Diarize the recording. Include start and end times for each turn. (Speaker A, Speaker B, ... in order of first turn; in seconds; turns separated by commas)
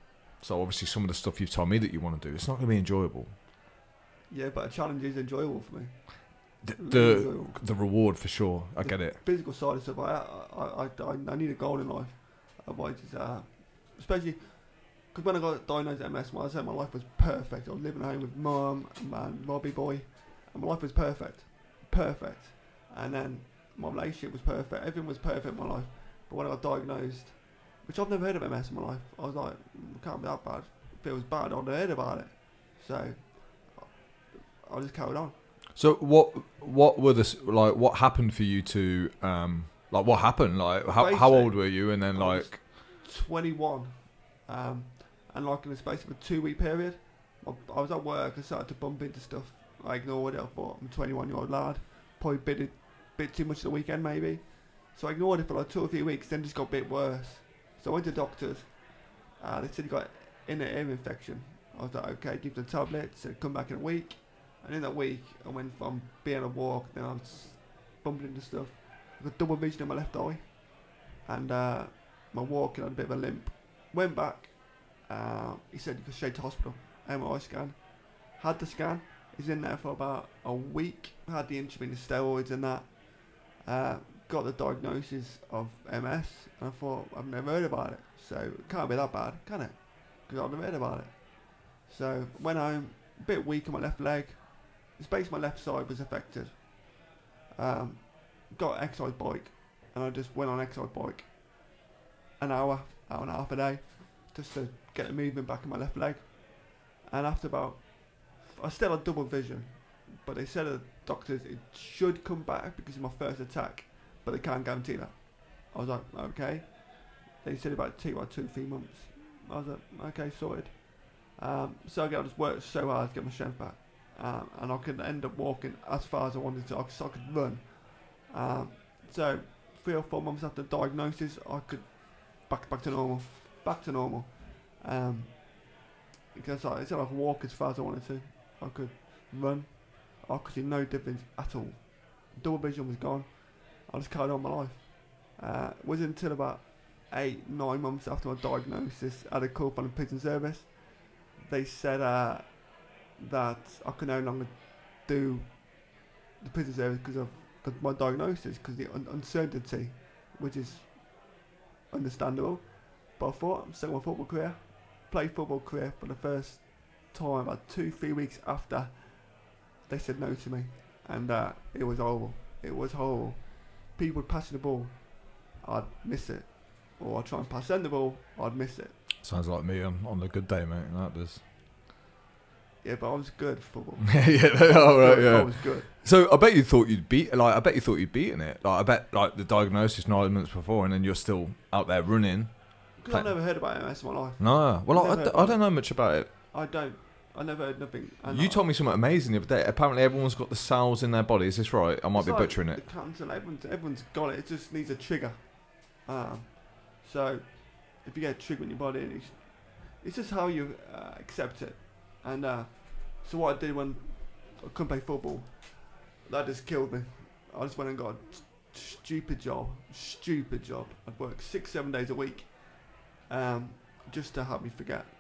Speaker A: 0.4-3.3, Speaker B: 4.3-5.9, Speaker A: 6.6-9.2, Speaker B: 6.8-7.6, Speaker B: 8.8-33.9, Speaker B: 34.6-35.4, Speaker A: 35.8-42.6, Speaker B: 40.9-58.7, Speaker B: 59.4-70.6, Speaker B: 71.2-83.0, Speaker B: 83.6-96.8, Speaker B: 97.6-101.3, Speaker B: 102.4-116.8, Speaker B: 117.4-135.6, Speaker B: 136.3-150.8, Speaker B: 151.3-152.6, Speaker B: 153.2-155.8, Speaker B: 156.4-161.1, Speaker B: 161.9-169.3, Speaker B: 169.9-179.0, Speaker A: 179.2-181.4, Speaker B: 182.8-185.9, Speaker A: 184.1-192.5, Speaker B: 193.0-195.6, Speaker A: 193.1-193.3, Speaker A: 194.4-196.3, Speaker B: 196.5-198.7, Speaker A: 198.3-202.8, Speaker B: 202.2-222.7, Speaker B: 223.3-225.1